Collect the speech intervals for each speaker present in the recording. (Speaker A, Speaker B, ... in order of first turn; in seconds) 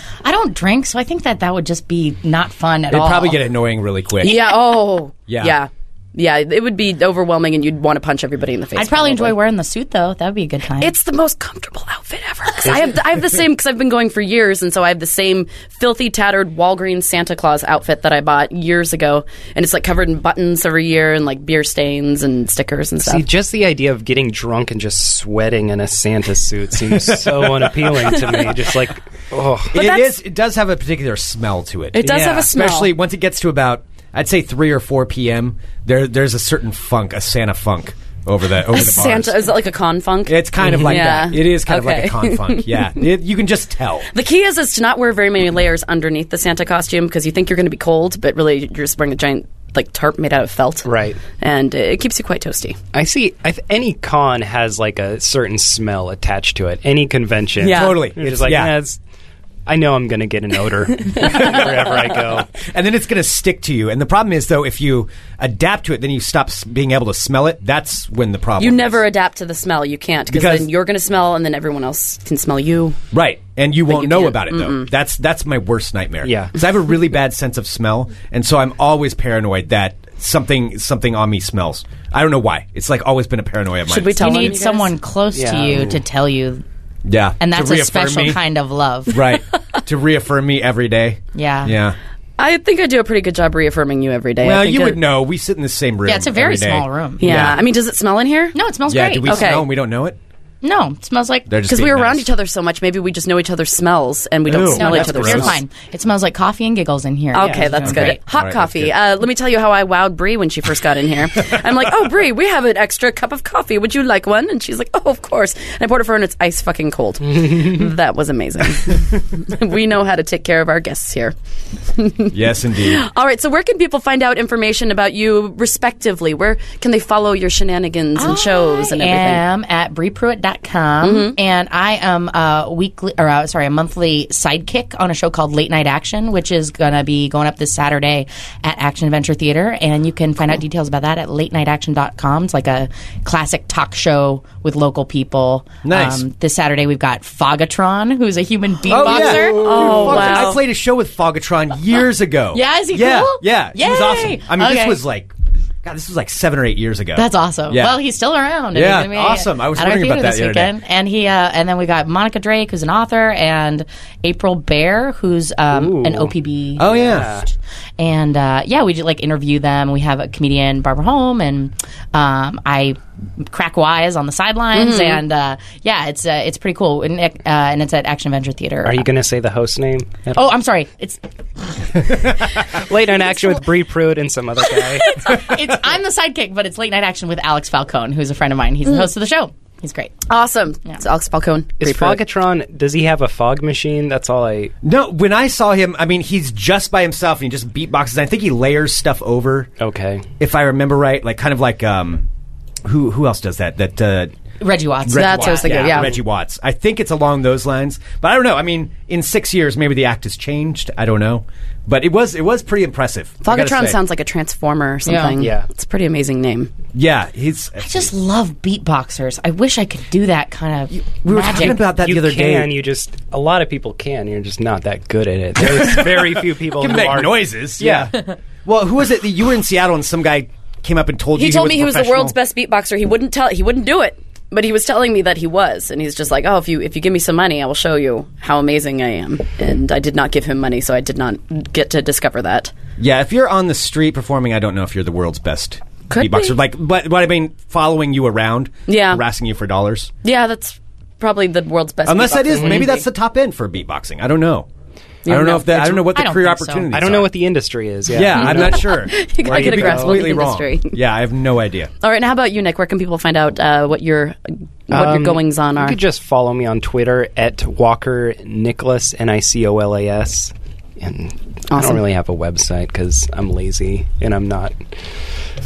Speaker A: 0.2-3.4, 8.7-10.9, 84.2-86.6, 87.4-89.2, 91.3-91.7, 96.0-97.5, 98.5-99.5, 100.6-101.6, 104.6-108.2, 128.2-150.6, 152.5-155.0, 157.1-167.1, 168.0-179.1, 180.3-182.3, 183.1-183.6, 185.1-190.2, 204.6-205.8, 215.0-215.5, 217.8-222.0, 255.4-256.9
Speaker B: 2.9-4.4, 5.3-5.6, 26.9-28.0, 29.7-39.5, 40.2-44.1, 57.7-58.8, 62.6-69.0, 70.3-70.7, 73.1-84.5, 87.0-88.4, 89.1-92.0, 94.4-97.6, 98.9-100.2, 101.5-102.3, 104.5-105.6, 107.8-109.0, 122.3-123.0, 145.8-146.2, 148.9-155.3, 155.8-158.0, 158.7-160.8, 166.8-167.3, 194.8-199.7, 200.4-202.2, 202.8-204.3, 205.0-214.0, 216.9-218.1, 220.9-222.7, 225.6-228.1, 228.6-232.3, 243.0-250.1, 252.1-254.7, 255.2-257.4, 258.1-261.9
Speaker C: 4.2-9.3, 10.8-23.3, 29.7-30.1, 31.9-32.9, 38.7-42.9, 44.1-52.8, 57.6-58.0, 68.6-73.0, 73.9-74.9, 83.9-84.9, 92.4-95.0, 97.2-98.5, 99.2-99.6, 101.7-105.6, 107.3-121.3, 122.0-129.4, 131.0-131.3, 149.1-150.6, 174.7-175.2, 190.3-192.2, 205.1-206.2, 213.4-216.7, 231.3-242.7, 246.1-246.5, 248.9-249.2, 250.2-253.0, 255.2-255.7, 258.4-260.9, 262.0-266.0, 271.7-272.0
Speaker D: 23.0-29.8, 32.0-32.5, 50.8-51.2, 52.9-59.0, 59.6-62.5, 76.2-76.5, 85.3-85.8, 165.7-167.4, 178.8-180.4, 182.6-185.3, 191.8-194.7, 199.8-200.2, 205.7-206.2, 215.4-215.7, 221.8-228.1, 252.5-252.9, 256.9-260.3, 264.9-275.0